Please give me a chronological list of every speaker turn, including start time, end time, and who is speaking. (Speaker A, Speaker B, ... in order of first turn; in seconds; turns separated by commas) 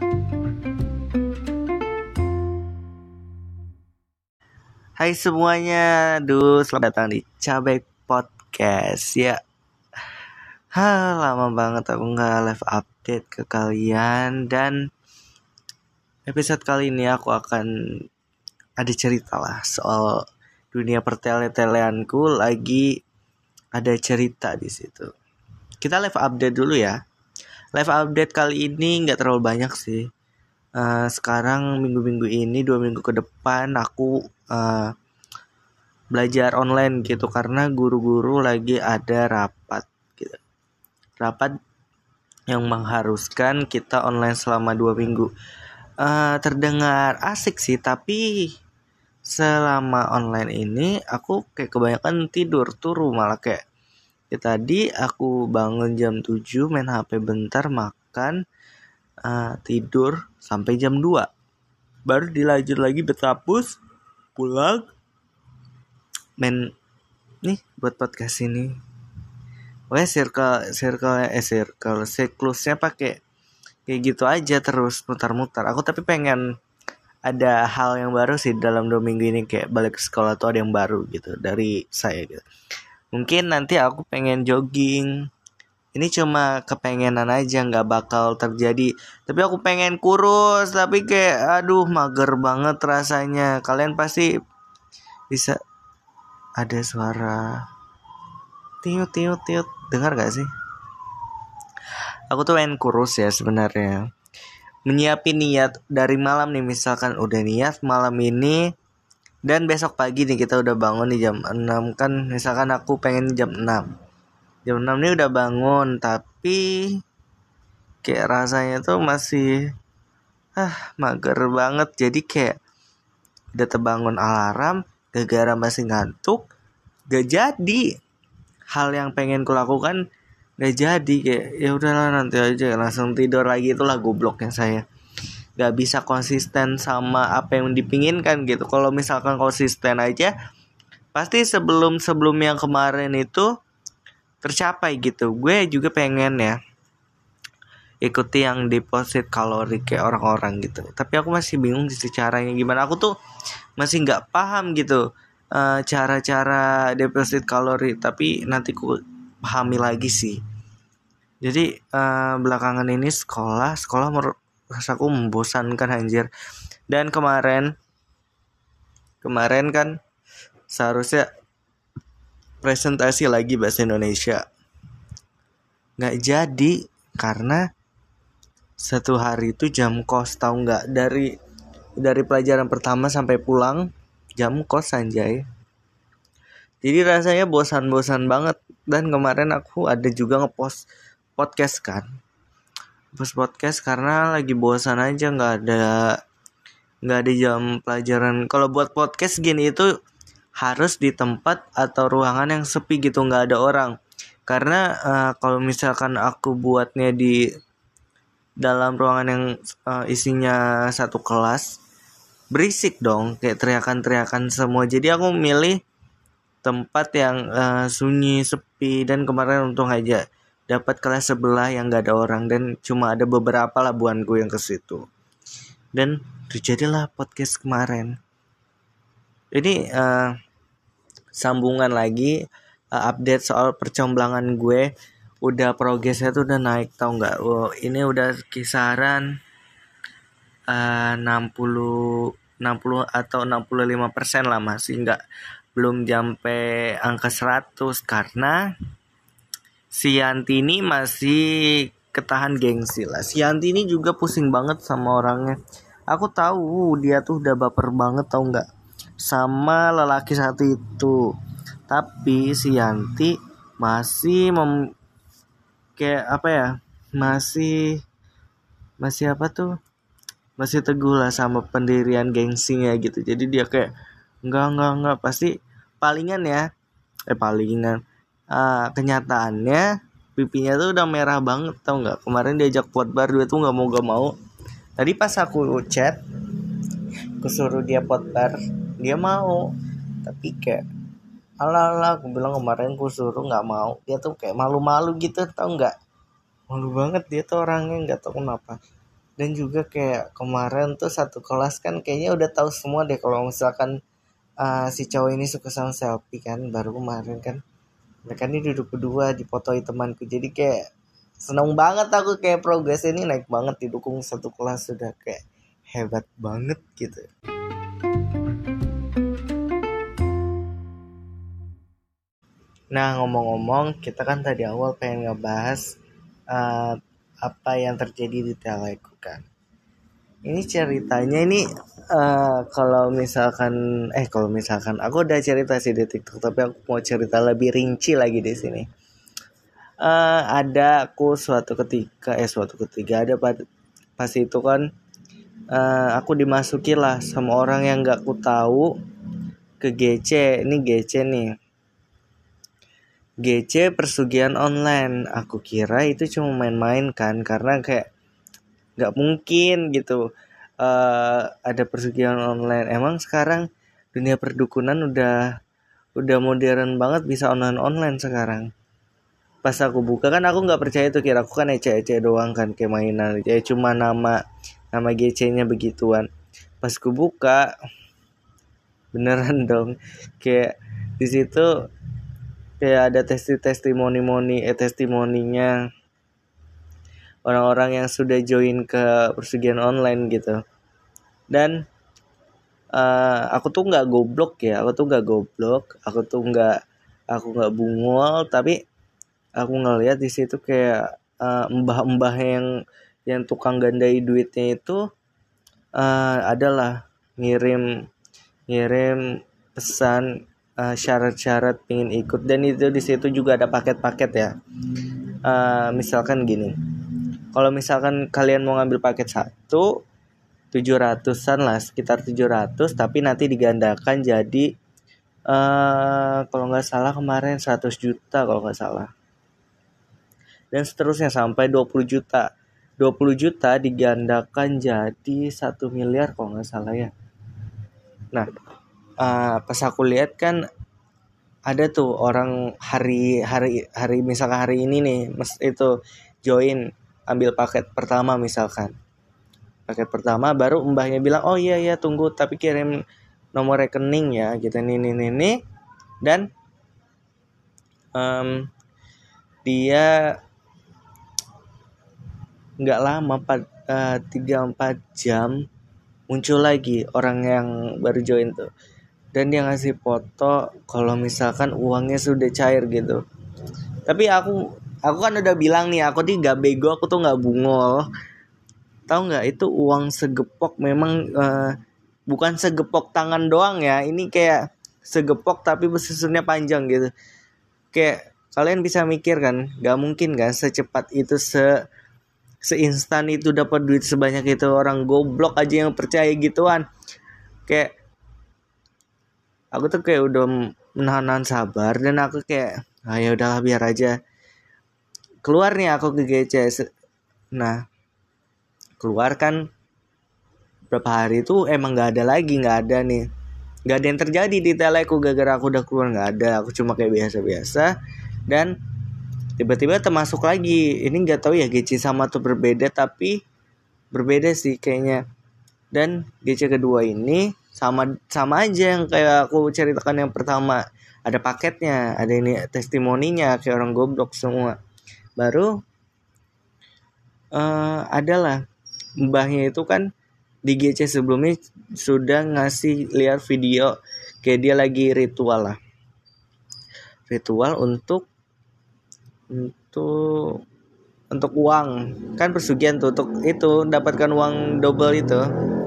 Speaker A: 5.0-9.4, Speaker A: 10.7-14.8, Speaker A: 16.3-17.7, Speaker A: 18.8-22.9, Speaker A: 23.8-25.1, Speaker A: 25.8-27.0, Speaker A: 27.8-30.0, Speaker A: 30.8-34.9, Speaker A: 36.1-40.4, Speaker A: 41.2-41.5, Speaker A: 42.5-45.3, Speaker A: 46.0-48.3, Speaker A: 49.3-53.6, Speaker A: 54.3-58.4, Speaker A: 59.2-61.3, Speaker A: 62.1-63.8, Speaker A: 64.4-64.9, Speaker A: 66.4-66.7, Speaker A: 67.4-68.8, Speaker A: 69.9-73.2, Speaker A: 73.9-76.4, Speaker A: 77.3-82.5, Speaker A: 83.1-85.2, Speaker A: 86.0-94.3, Speaker A: 95.3-95.6, Speaker A: 96.6-97.6, Speaker A: 98.8-100.5, Speaker A: 102.3-104.0, Speaker A: 104.9-108.6, Speaker A: 109.5-113.9, Speaker A: 114.7-117.0, Speaker A: 118.0-119.6, Speaker A: 120.6-122.5, Speaker A: 123.6-126.5, Speaker A: 127.1-127.9, Speaker A: 128.7-130.0, Speaker A: 130.6-134.8, Speaker A: 135.6-140.3, Speaker A: 141.1-143.5, Speaker A: 144.4-146.6, Speaker A: 148.1-153.1, Speaker A: 153.8-155.0, Speaker A: 155.5-160.4, Speaker A: 161.4-166.3, Speaker A: 166.9-167.7, Speaker A: 169.2-169.9, Speaker A: 170.7-171.3, Speaker A: 172.6-174.4, Speaker A: 176.0-177.6, Speaker A: 178.8-181.3, Speaker A: 182.0-183.9, Speaker A: 184.4-185.4, Speaker A: 186.8-190.8, Speaker A: 191.4-192.1, Speaker A: 193.2-196.2, Speaker A: 197.1-199.9, Speaker A: 200.6-203.9, Speaker A: 204.5-207.4, Speaker A: 208.6-211.7, Speaker A: 212.5-215.8, Speaker A: 216.6-225.0, Speaker A: 226.0-228.2, Speaker A: 229.5-230.3, Speaker A: 231.4-232.3, Speaker A: 232.9-234.9, Speaker A: 235.4-239.3, Speaker A: 240.7-245.2, Speaker A: 245.8-248.6, Speaker A: 249.9-255.6, Speaker A: 256.1-258.7, Speaker A: 259.2-261.3, Speaker A: 261.9-264.8, Speaker A: 266.0-268.0, Speaker A: 269.0-269.7, Speaker A: 270.6-273.9, Speaker A: 274.4-276.6, Speaker A: 277.3-278.0, Speaker A: 278.5-284.3, Speaker A: 285.0-286.2, Speaker A: 287.4-289.7, Speaker A: 290.2-290.8, Speaker A: 291.6-295.9, Speaker A: 296.7-298.8, Speaker A: 299.4-303.9, Speaker A: 304.6-307.6, Speaker A: 308.3-310.8, Speaker A: 311.4-315.4, Speaker A: 315.9-317.3, Speaker A: 322.9-325.9, Speaker A: 326.5-329.4, Speaker A: 330.5-338.9, Speaker A: 340.0-343.6, Speaker A: 344.2-344.9, Speaker A: 345.7-348.9, Speaker A: 349.8-351.5, Speaker A: 353.4-358.1, Speaker A: 359.0-360.2, Speaker A: 360.8-365.4, Speaker A: 366.2-368.7, Speaker A: 369.6-374.4, Speaker A: 374.9-376.3, Speaker A: 376.8-377.7, Speaker A: 379.1-381.7, Speaker A: 382.8-385.8, Speaker A: 387.4-390.6, Speaker A: 392.9-396.8, Speaker A: 397.3-398.8, Speaker A: 399.6-402.7, Speaker A: 403.3-405.0, Speaker A: 406.0-407.9, Speaker A: 408.7-409.2, Speaker A: 409.8-410.3, Speaker A: 410.8-414.5, Speaker A: 415.4-416.7, Speaker A: 417.5-419.9, Speaker A: 420.7-424.7, Speaker A: 425.5-429.1, Speaker A: 430.7-432.5, Speaker A: 433.0-437.1, Speaker A: 439.2-440.6, Speaker A: 441.7-445.9, Speaker A: 446.4-448.9, Speaker A: 449.9-453.0, Speaker A: 453.6-455.6, Speaker A: 456.2-456.5, Speaker A: 458.2-458.7, Speaker A: 459.6-460.2, Speaker A: 462.8-465.6, Speaker A: 466.3-468.7, Speaker A: 469.3-473.2, Speaker A: 474.1-478.1, Speaker A: 479.1-481.8, Speaker A: 482.3-487.1, Speaker A: 487.9-491.7, Speaker A: 492.6-496.9, Speaker A: 499.7-504.1, Speaker A: 505.4-506.9, Speaker A: 509.0-509.6, Speaker A: 510.9-513.3, Speaker A: 513.9-517.9, Speaker A: 518.5-518.7, Speaker A: 519.6-523.4, Speaker A: 524.1-525.2, Speaker A: 525.9-534.8, Speaker A: 535.4-535.7, Speaker A: 537.5-538.6, Speaker A: 539.2-540.1, Speaker A: 540.7-545.8, Speaker A: 547.3-548.3, Speaker A: 549.5-550.6, Speaker A: 551.3-555.5